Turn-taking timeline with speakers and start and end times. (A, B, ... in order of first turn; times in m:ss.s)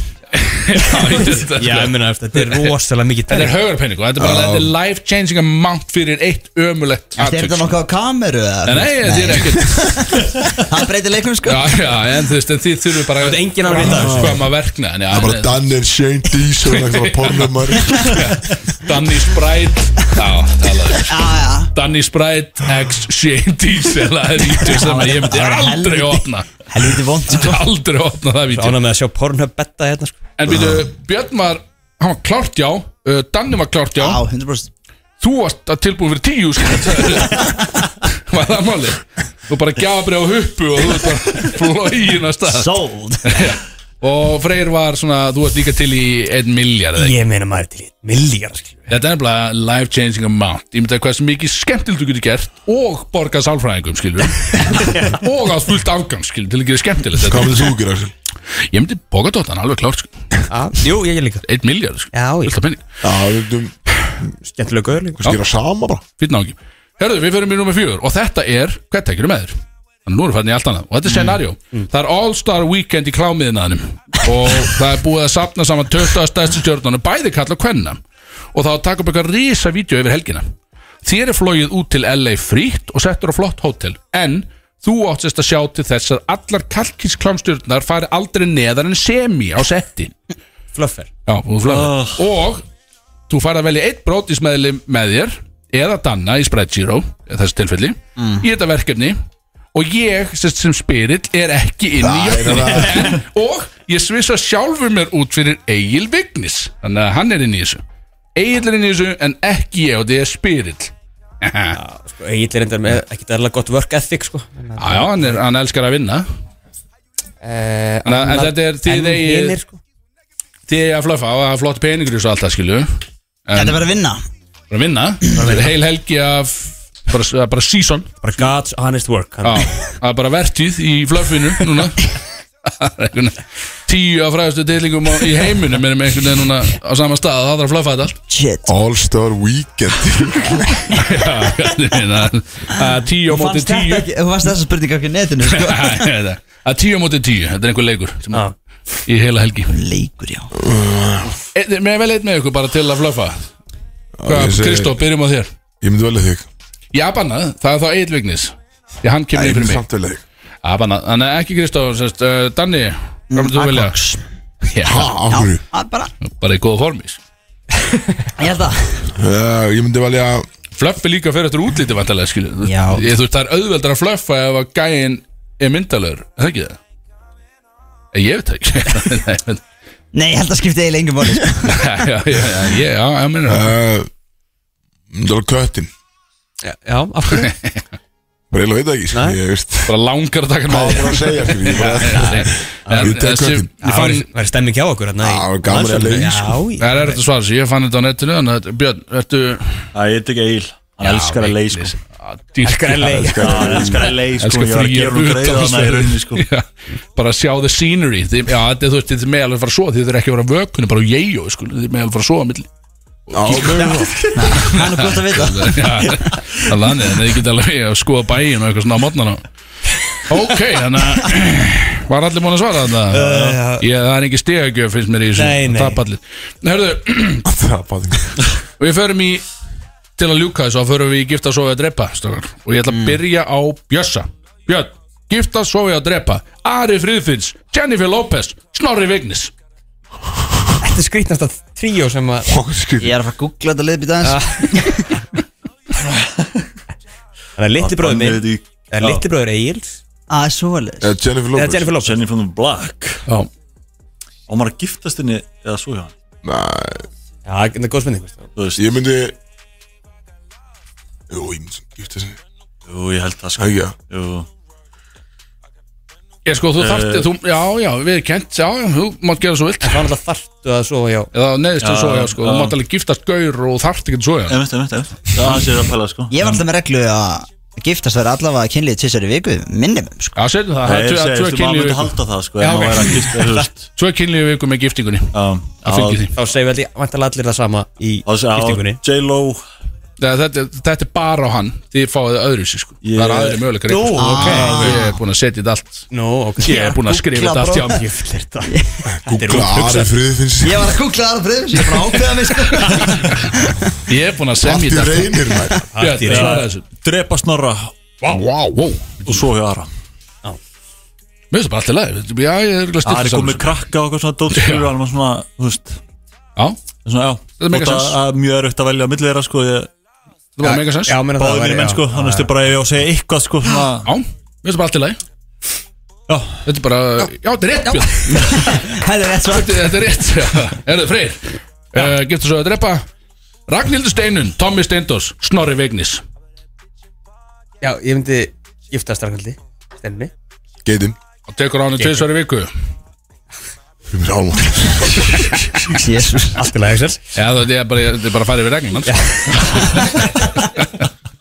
0:00.3-0:02.7 A
0:01.0-0:03.5 B
0:03.3-0:07.8 A
0:04.2-0:04.7 C
0:07.2-0:11.9 D
0:08.6-0:10.2 A
0:11.4-0:15.6 A
0:13.2-0:14.4 B
0:13.8-0:14.3 C
0:15.1-0:18.3 C
0:16.6-0:28.8 A
0:21.0-0:21.7 D
0:24.5-0:27.6 D
0:28.5-0:30.2 B
0:30.4-0:34.2 A
0:34.0-0:34.7 D
0:35.2-0:47.2 A
0:42.5-0:43.4 D
0:47.0-0:48.9 B
0:48.9-0:57.7 A
0:54.7-0:55.1 B
0:57.2-0:58.1 C
0:58.7-1:00.1 A
1:00.5-1:01.4 B
1:01.4-1:02.8 A
1:02.1-1:02.6 B
1:03.0-1:03.7 C
1:04.4-1:05.2 B
1:05.2-1:06.0 C
1:06.2-1:18.0 A
1:18.5-1:20.4 A
1:21.0-1:30.1 A
1:30.7-1:31.1 B
1:31.2-1:32.6 A
1:31.6-1:32.2 E
1:33.3-1:39.2 A
1:38.2-1:38.4 D
1:39.7-1:47.8 A
1:42.0-1:43.2 C
1:48.4-1:51.8 A
1:51.7-1:55.4 B
1:54.8-1:56.2 A
1:57.4-1:59.8 B
1:58.0-1:59.6 A
2:00.7-2:02.9 A
2:03.5-2:03.9 A
2:03.5-2:04.2 D
2:04.7-2:08.4 A
2:05.3-2:05.7 B
2:08.2-2:09.7 B
2:09.4-2:12.1 A
2:12.6-2:18.2 A
2:18.3-2:18.7 D
2:18.6-2:20.9 C
2:20.9-2:24.1 A
2:23.3-2:26.1 D
2:25.5-2:28.5 A
2:29.0-2:29.7 A
2:29.7-2:30.5 D
2:30.5-2:31.3 C
2:31.5-2:33.5 A
2:34.2-2:35.0 C
2:34.3-2:35.5 A
2:35.8-2:36.5 C
2:36.9-2:39.8 A
2:39.3-2:40.2 C
2:40.6-2:44.0 A
2:43.3-2:44.2 D
2:44.6-2:45.1 A
2:44.8-2:45.6 C
2:45.3-2:46.1 D
2:46.2-2:47.2 A
2:48.4-2:48.9 D
2:49.1-2:50.5 C
2:50.7-2:56.8 A
2:52.6-2:53.1 D
2:58.1-2:59.6 A
3:00.1-3:02.0 D
3:01.7-3:03.7 A
3:03.5-3:04.1 C
3:05.1-3:05.9 C
3:06.6-3:07.5 B
3:07.3-3:07.8 A
3:08.5-3:09.9 C
3:09.1-3:09.4 B
3:09.8-3:14.3 A
3:10.7-3:13.7 C
3:12.8-3:13.2 B
3:13.8-3:17.2 B
3:15.2-3:16.6 C
3:16.8-3:19.9 A
3:19.9-3:22.0 E
3:21.0-3:23.8 A
3:22.6-3:23.8 B
3:23.1-3:24.1 C
3:23.4-3:26.4 E
3:24.3-3:32.7 A
3:33.3-3:39.4 A
3:33.3-3:34.2 C
3:34.3-3:36.4 D
3:40.2-3:47.4 A
3:43.1-3:43.8 B
3:45.3-3:46.0 B
3:47.4-3:48.4 C
3:48.8-3:49.4 A
3:50.2-3:59.5 A
3:52.9-3:53.2 D
4:00.8-4:02.5 B
4:02.5-4:03.1 C
4:03.0-4:05.0 D
4:04.2-4:05.0 B
4:06.0-4:06.6 E
4:07.6-4:10.0 B
4:07.8-4:09.2 E
4:10.3-4:11.1 D
4:11.0-4:11.9 C
4:11.5-4:12.1 B
4:12.0-4:13.2 E
4:14.5-4:16.1 E
4:16.4-4:17.0 C
4:17.4-4:18.5 B
4:18.6-4:18.8 E
4:18.8-4:19.4 C
4:21.3-4:22.4 C
4:22.9-4:24.5 E
4:23.6-4:23.9 C
4:26.4-4:30.0 A
4:26.8-4:27.3 E
4:29.8-4:31.3 B
4:31.3-4:34.6 A
4:31.8-4:32.8 E
4:34.5-4:36.3 E
4:36.3-4:40.4 D
4:40.4-4:46.3 A
4:40.8-4:43.8 E
4:42.6-4:42.9 B
4:45.3-4:46.3 E
4:46.3-4:49.0 B
4:48.2-4:49.6 E
4:50.2-4:56.1 A
4:53.0-4:53.6 E
4:53.9-4:55.0 B
4:54.2-4:55.2 D
4:56.1-4:57.0 B
4:56.6-4:58.0 A
4:56.7-4:58.0 D
4:57.8-4:58.7 B
4:58.7-4:59.0 D
4:59.1-5:00.9 C
4:59.2-5:00.1 B
5:00.6-5:03.8 D
5:02.7-5:03.2 A
5:04.1-5:06.8 A
5:04.6-5:05.9 C
5:05.9-5:06.7 B
5:06.2-5:07.9 E
5:08.5-5:09.5 A
5:09.2-5:09.9 E
5:11.5-5:13.8 A
5:13.0-5:16.0 E
5:14.5-5:14.9 A
5:17.0-5:19.9 E
5:17.6-5:18.2 A
5:20.6-5:21.2 A
5:21.0-5:22.5 B
5:21.3-5:24.1 E
5:24.0-5:25.2 A
5:26.3-5:26.6 E
5:26.6-5:33.0 A
5:28.3-5:29.9 D
5:33.7-5:36.2 A
5:37.8-5:40.3 B
5:40.8-5:41.2 C
5:41.5-5:42.7 A
5:42.0-5:42.2 B
5:44.1-5:45.6 C
5:45.8-5:46.7 D
5:46.6-5:47.2 B
5:47.3-5:50.1 A
5:49.0-5:50.5 B
5:50.7-5:51.0 A